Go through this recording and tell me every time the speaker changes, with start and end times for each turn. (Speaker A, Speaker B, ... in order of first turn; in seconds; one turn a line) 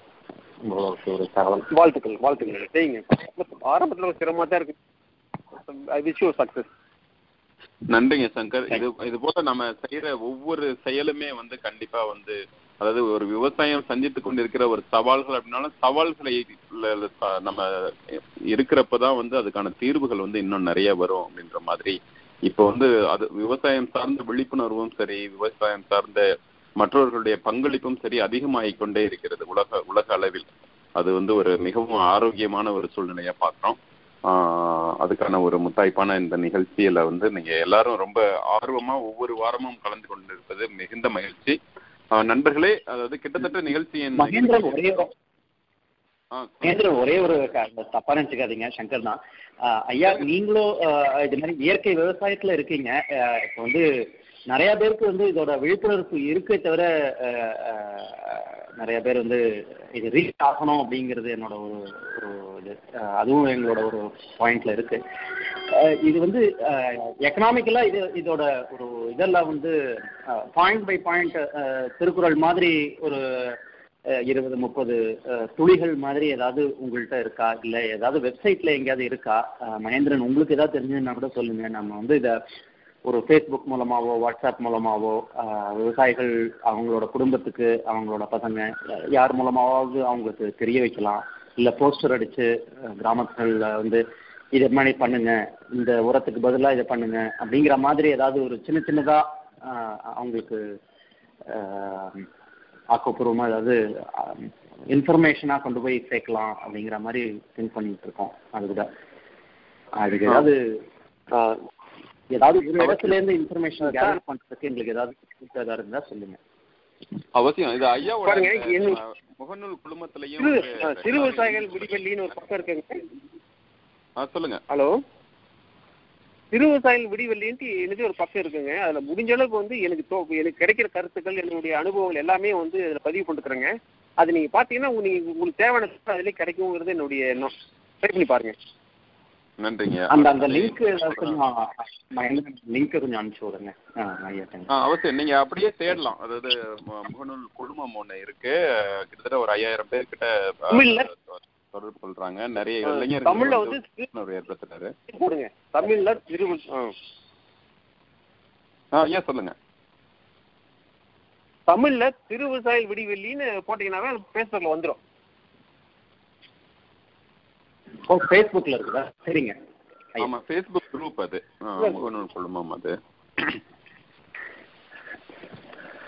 Speaker A: 0.6-1.7
Speaker B: 1.7-4.8
Speaker B: 5.5-6.7
Speaker C: 7.9-26.2
Speaker C: 26.8-33.8
Speaker C: 34.3-41.6
Speaker C: 42.2-45.0
Speaker A: 44.2-45.1
Speaker C: 46.3-46.8
Speaker A: 46.6-53.9
Speaker A: 54.5-59.4
Speaker A: 59.9-65.0
Speaker A: 65.7-73.6
Speaker A: 74.2-82.4
Speaker A: 83.0-94.0
Speaker A: 94.5-100.6
Speaker A: 101.5-102.3
Speaker A: 102.9-108.9
Speaker A: 110.0-110.8
Speaker A: 112.3-116.4
Speaker B: 113.8-114.2
Speaker C: 117.3-122.0
Speaker B: 118.2-119.0
Speaker B: 120.4-123.0
Speaker C: 124.2-124.6
Speaker B: 124.7-125.0
Speaker B: 126.5-137.5
Speaker B: 138.0-138.5
Speaker C: 139.6-141.4
Speaker A: 140.1-144.7
Speaker C: 144.8-154.9
Speaker B: 150.7-151.1
Speaker B: 152.8-154.1
Speaker B: 155.1-156.9
Speaker C: 158.9-159.6
Speaker B: 161.7-165.0
Speaker A: 168.1-169.6
Speaker C: 170.2-173.6
Speaker B: 171.8-172.1